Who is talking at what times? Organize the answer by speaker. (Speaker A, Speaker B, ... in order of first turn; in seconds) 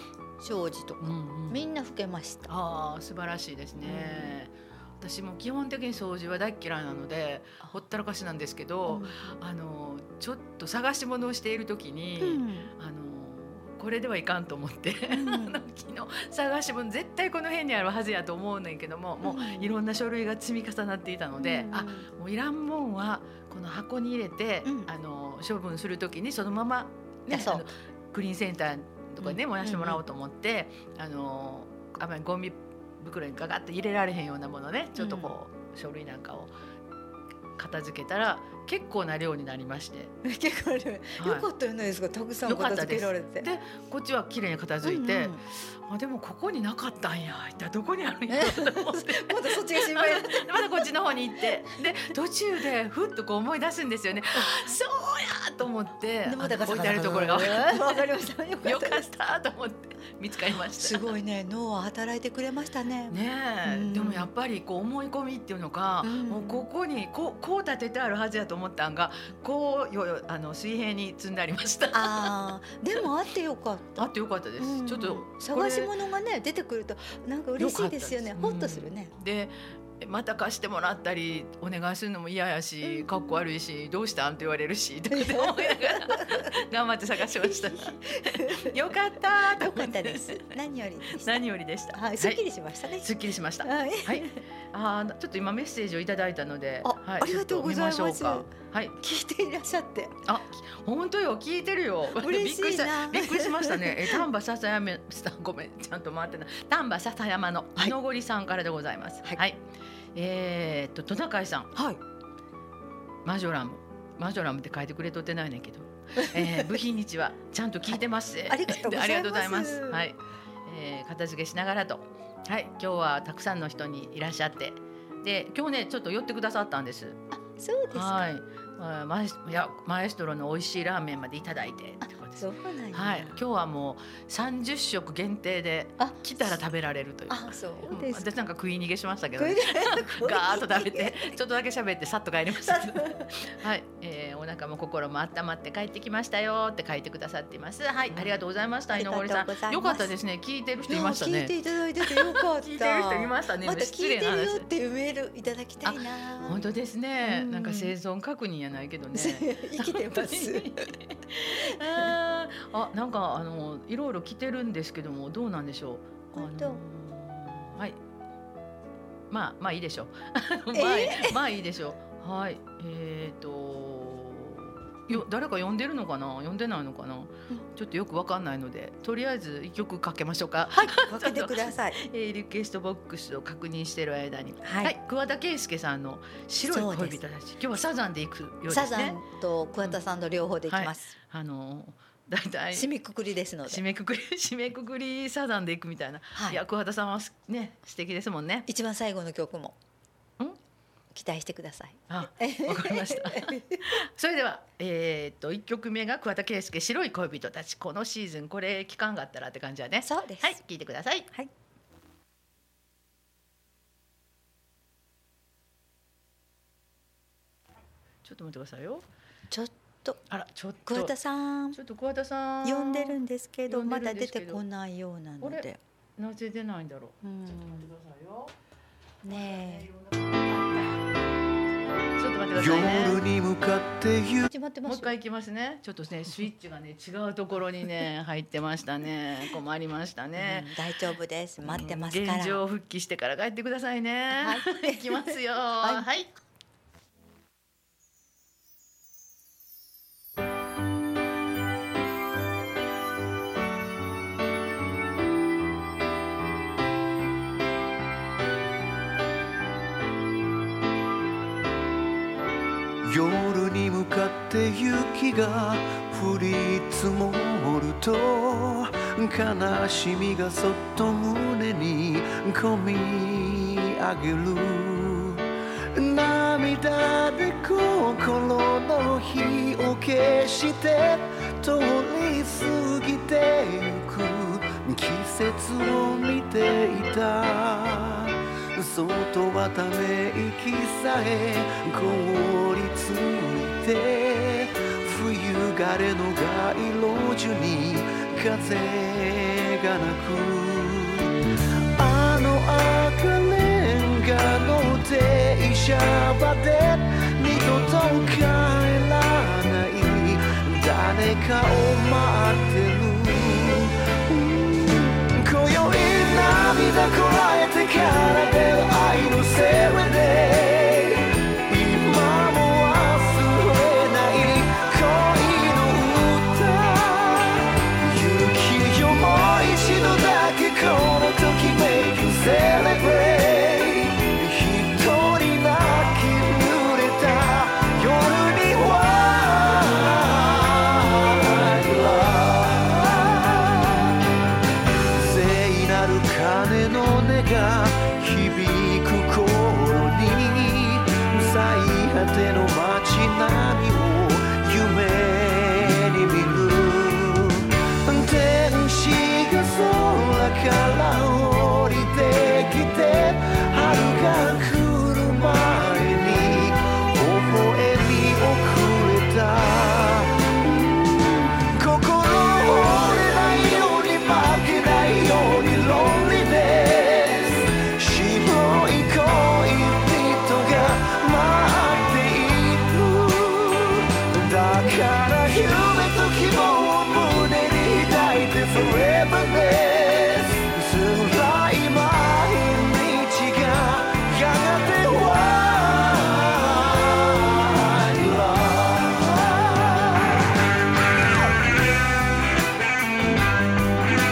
Speaker A: 0.4-2.5, 3.8-4.4, 8.8-9.3, 12.2-12.7, 15.1-15.6, 19.2-19.7, 21.4-22.1, 27.3-27.7, 29.2-30.0, 35.0-35.3, 40.2-43.5, 44.8-45.4, 48.3-50.9, 54.3-54.7, 56.2-59.1, 60.5-64.3, 66.0-66.7, 71.9-79.1, 82.8-83.4, 85.1-86.5, 87.2-93.1, 93.6-94.4, 96.8-98.5, 99.0-100.2, 102.2-104.2, 111.7-112.0, 116.2-116.7, 117.9-120.1, 127.3-128.3, 132.3-133.4, 136.0-136.6, 137.3-138.3, 139.4-141.3, 142.6-143.4, 148.1-148.4, 148.9-150.1, 150.9-156.6, 157.2-157.9, 159.1-160.9, 161.5-162.2, 166.3-166.8, 170.7-171.4, 180.7-182.0, 184.6-184.9, 186.6-187.2, 188.7-191.1, 192.7-193.8, 196.3-196.6, 198.7-199.8, 201.1-203.9, 210.0-210.6, 219.5-220.2, 220.9-221.8, 222.6-225.8, 227.2-227.9, 229.2-229.9, 234.5-235.1, 240.4-242.6, 244.3-246.1
Speaker B: 1.0-1.6, 2.5-36.5, 37.6-40.1, 41.2-41.5, 42.5-58.0, 58.6-61.1, 63.1-72.3, 74.0-75.9, 77.6-90.6, 91.1-92.4, 93.0-99.0, 100.2-109.6, 110.1-111.7, 113.2-127.2, 127.9-154.7, 155.8-168.0, 169.3-189.2, 190.7-192.9, 193.7-198.7, 202.1-211.3, 218.2-219.0, 220.3-221.1, 221.7-223.2, 223.7-224.6, 225.4-225.7, 226.2-227.2, 227.7-228.5, 229.3-231.0, 232.2-233.2, 234.8-240.7, 241.6-246.3
Speaker C: 232.5-234.5, 263.0-301.4, 301.9-344.2, 345.1-400.3